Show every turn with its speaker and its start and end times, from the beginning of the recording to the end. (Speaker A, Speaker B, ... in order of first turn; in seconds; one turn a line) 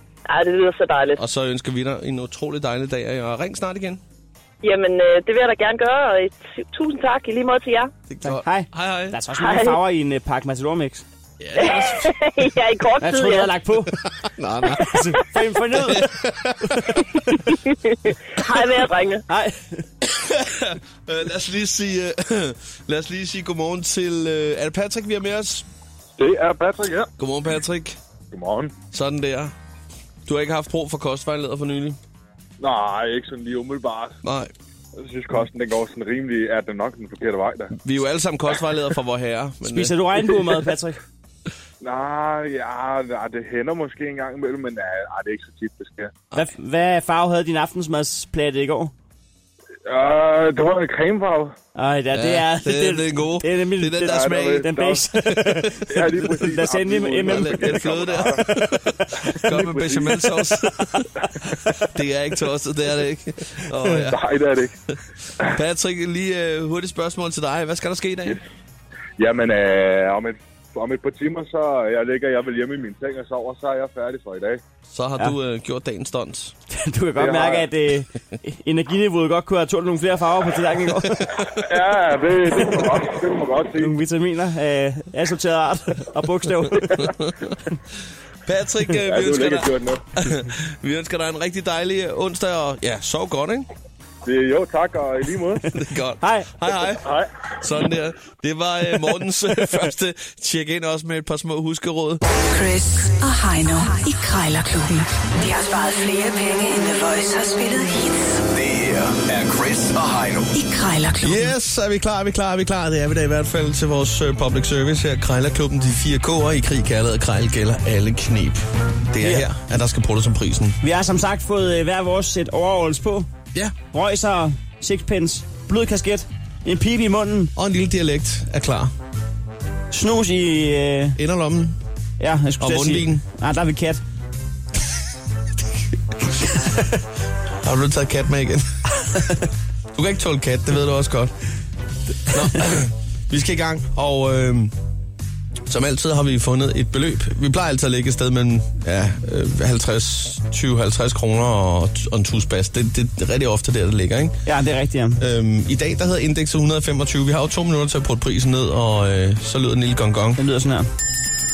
Speaker A: 0.3-1.2
Speaker B: 1.2-4.0
Speaker A: 4.6-7.9
Speaker B: 8.1-9.2
Speaker C: 8.2-11.1
Speaker A: 9.4-9.8
Speaker B: 11.4-12.2
Speaker A: 11.6-13.5
Speaker C: 13.0-14.0
Speaker B: 14.1-15.1
Speaker C: 14.8-16.1
Speaker B: 15.7-17.0
Speaker C: 16.7-17.0
Speaker A: 17.9-19.2
Speaker C: 19.3-19.8
Speaker B: 20.0-25.7
Speaker D: 26.2-27.1
Speaker B: 27.2-28.0
Speaker D: 28.3-28.8
Speaker B: 28.9-29.5
Speaker B: 30.3-32.0
Speaker D: 32.6-34.2
Speaker B: 34.2-34.5
Speaker D: 35.0-37.7
Speaker B: 37.8-39.9
Speaker C: 39.6-41.0
Speaker D: 41.8-46.1
Speaker C: 46.4-48.9
Speaker D: 49.9-51.5
Speaker C: 51.8-55.9
Speaker B: 52.1-54.7
Speaker D: 54.1-55.0
Speaker B: 55.2-56.5
Speaker D: 55.9-60.3
Speaker C: 56.4-57.8
Speaker B: 57.0-61.0
Speaker B: 61.9-64.2
Speaker D: 63.9-64.7
Speaker B: 65.4-68.4
Speaker D: 69.2-74.6
Speaker B: 74.9-76.6
Speaker C: 76.7-81.5
Speaker D: 77.2-77.7
Speaker D: 81.5-84.0
Speaker C: 83.8-87.1
Speaker B: 87.0-87.5
Speaker B: 88.5-93.7
Speaker D: 89.0-90.0
Speaker D: 94.2-95.7
Speaker B: 95.7-97.0
Speaker C: 96.2-96.5
Speaker B: 97.6-102.2
Speaker E: 102.5-108.4
Speaker F: 108.5-110.6
Speaker E: 110.5-111.5
Speaker B: 111.2-120.8
Speaker C: 119.2-119.5
Speaker C: 120.8-123.3
Speaker C: 123.9-127.5
Speaker B: 127.6-128.9
Speaker C: 129.9-131.2
Speaker B: 131.2-131.8
Speaker C: 132.2-134.0
Speaker B: 132.6-133.2
Speaker B: 136.1-136.8
Speaker B: 137.6-138.7
Speaker B: 139.9-141.3
Speaker B: 142.3-144.7
Speaker B: 145.7-154.4
Speaker C: 154.5-155.2
Speaker B: 155.2-160.4
Speaker C: 160.4-160.9